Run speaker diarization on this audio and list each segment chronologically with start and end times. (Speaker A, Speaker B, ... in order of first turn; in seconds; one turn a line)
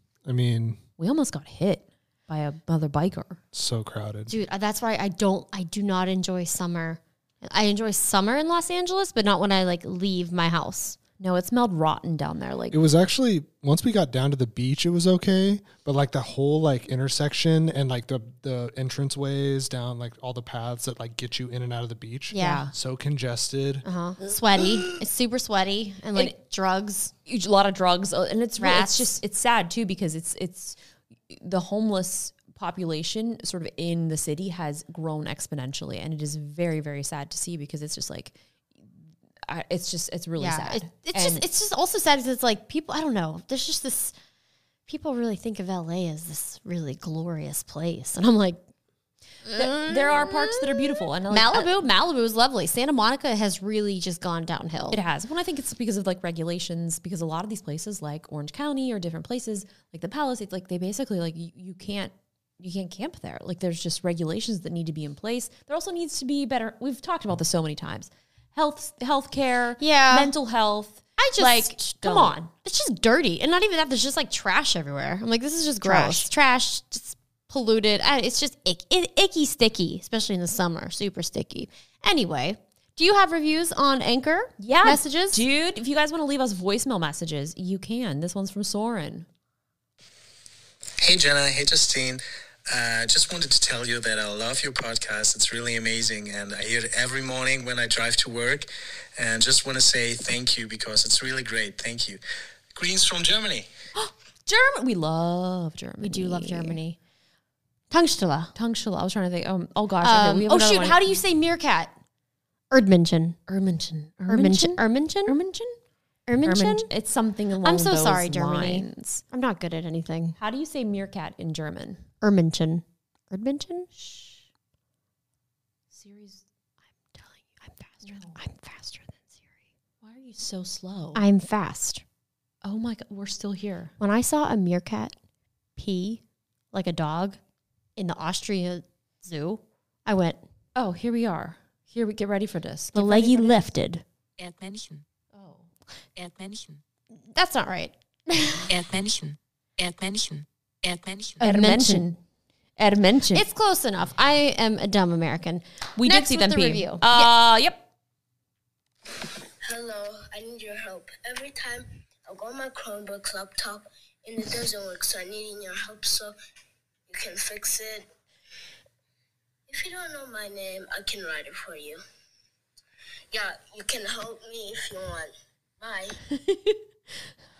Speaker A: 0.2-0.8
Speaker B: 1.0-3.4
Speaker A: 3.5-4.3
Speaker C: 4.3-11.0
Speaker B: 11.2-12.8
Speaker A: 12.7-23.9
Speaker C: 22.3-22.7
Speaker B: 22.4-22.7
Speaker C: 23.9-27.1
Speaker B: 27.3-30.8
Speaker C: 28.6-29.2
Speaker B: 31.3-38.4
Speaker B: 39.5-41.4
Speaker C: 40.4-44.1
Speaker C: 44.9-48.6
Speaker C: 49.5-55.0
Speaker B: 49.5-51.9
Speaker B: 54.9-72.4
Speaker C: 69.8-70.3
Speaker C: 71.2-85.4
Speaker B: 75.8-76.3
Speaker B: 84.6-89.3
Speaker D: 91.0-102.2
Speaker D: 102.7-103.7
Speaker B: 103.9-106.8
Speaker C: 106.0-107.0
Speaker C: 107.9-108.5
Speaker B: 108.5-111.0
Speaker C: 110.0-111.9
Speaker C: 112.7-113.4
Speaker B: 113.5-115.8
Speaker C: 114.3-115.3
Speaker C: 116.3-116.9
Speaker B: 116.4-119.2
Speaker C: 117.6-120.4
Speaker B: 120.4-122.0
Speaker C: 122.2-123.9
Speaker B: 124.0-124.3
Speaker B: 125.9-126.4
Speaker C: 127.2-129.2
Speaker B: 128.1-128.4
Speaker B: 130.0-131.2
Speaker C: 131.2-132.0
Speaker B: 132.6-133.9
Speaker C: 134.0-135.2
Speaker C: 135.8-137.4
Speaker C: 138.0-140.4
Speaker B: 140.8-143.6
Speaker C: 142.9-144.0
Speaker E: 144.4-145.0
Speaker B: 145.4-145.7
Speaker E: 146.2-146.8
Speaker C: 147.2-148.7
Speaker E: 148.7-151.4
Speaker B: 151.4-152.2
Speaker C: 151.4-152.1
Speaker B: 152.8-153.4
Speaker C: 153.3-157.3
Speaker B: 156.0-157.8
Speaker F: 159.6-166.4
Speaker F: 167.1-168.1
Speaker F: 169.7-172.0
Speaker F: 173.3-176.2
Speaker B: 176.3-176.8